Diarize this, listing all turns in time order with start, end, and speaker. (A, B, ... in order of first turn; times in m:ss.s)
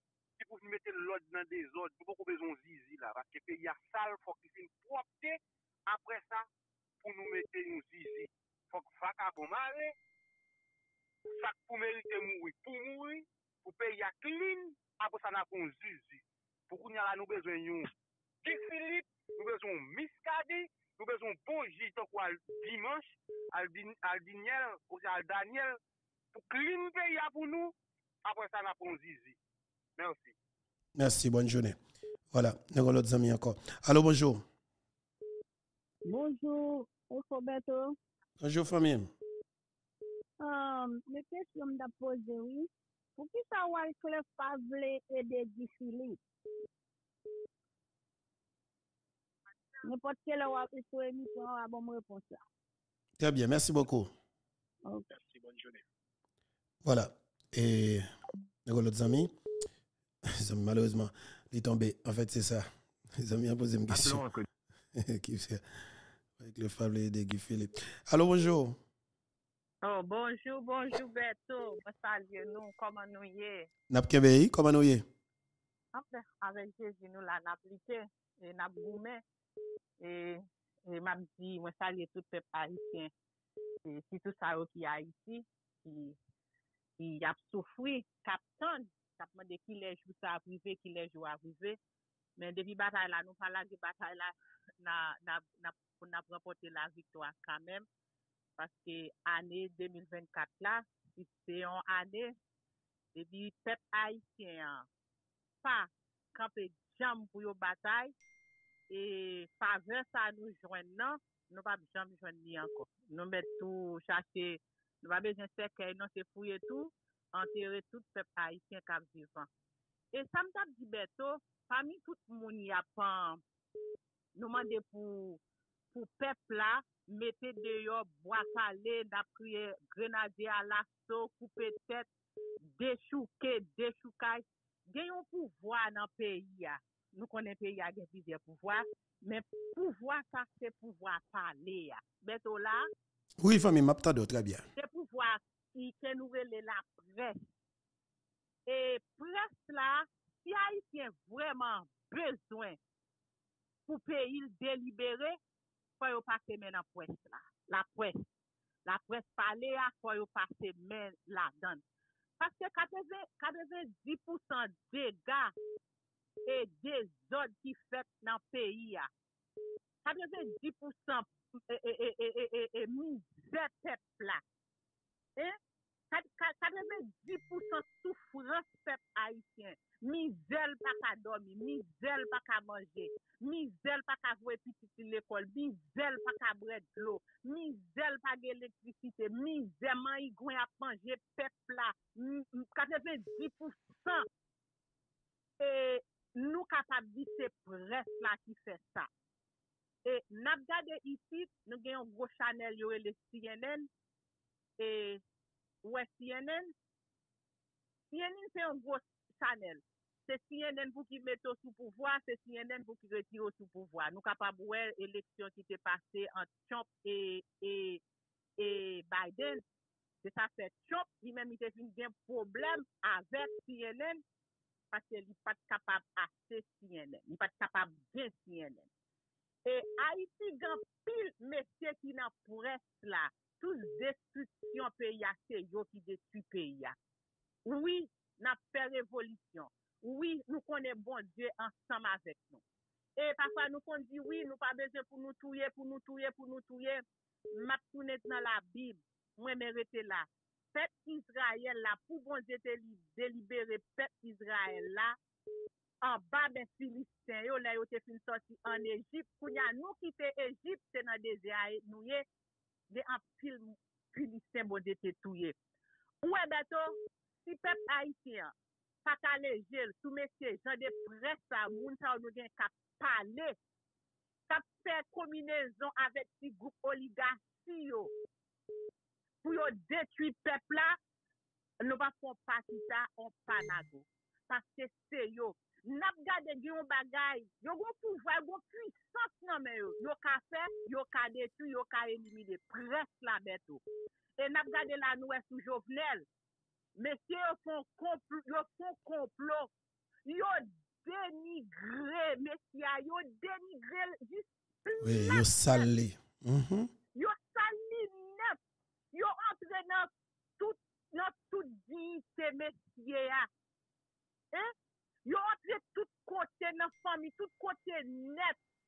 0:00.4-0:06.5 A
0:07.0-0:09.9 A
0:11.4-0:25.8 A
0:26.3-0:27.7 A
0:28.2-0:29.4 A
0:30.0-0:30.3 A
0:31.0-0:31.8 B
0:32.3-0:34.4 B
0:36.1-0:37.8 C
0:38.4-0:39.1 B
0:40.4-0:46.2 C
0:49.9-0:52.4 C
0:53.2-0:54.1 B
0:55.2-0:55.8 A
0:56.8-0:58.1 B
0:58.7-0:59.3 B
1:00.4-1:04.3 B
1:05.0-1:05.6 B
1:06.4-1:08.8 B
1:09.8-1:13.7 D
1:13.9-1:15.0 B
1:15.9-1:19.2 D
1:20.0-1:23.1 D
1:23.8-1:26.2 D
1:27.0-1:31.8 D
1:32.4-1:37.9 D
1:38.6-1:42.4 D
1:43.2-1:44.9 D
1:45.6-1:48.1 D
1:48.9-1:59.5 D
2:00.1-2:03.4 D
2:04.4-2:05.4 D
2:05.9-2:12.1 D
2:12.7-2:22.8 D
2:23.4-2:24.6 B
2:24.8-2:27.4 D
2:28.7-2:32.8 D
2:33.9-2:35.4 D
2:36.0-2:38.2 D
2:38.9-2:41.8 D
2:42.4-2:45.5 D
2:46.5-2:49.1 D
2:50.0-2:54.4 D
2:56.1-3:14.3 D
3:15.6-3:19.1 D
3:20.0-3:23.9 D
3:24.8-3:25.2 D
3:25.8-3:26.7 D
3:28.1-3:38.0 D
3:38.6-3:39.6 D
3:40.2-3:44.2 D
3:44.9-3:48.9 D
3:49.7-3:57.0 D
3:57.7-4:02.6 D
4:03.2-4:07.0 D
4:07.5-4:15.2 D
4:16.0-4:22.2 D
4:22.9-4:25.6 D
4:26.2-4:28.5 D
4:29.0-4:33.6 D
4:34.5-4:38.1 D
4:39.4-4:41.0 D
4:41.8-4:53.8 D
4:54.4-4:56.3 D
4:57.0-4:59.7 D
5:00.2-5:05.9 D
5:05.0-5:06.9 B
5:07.2-5:08.6 D
5:09.1-5:13.5 D
5:15.2-5:18.6 D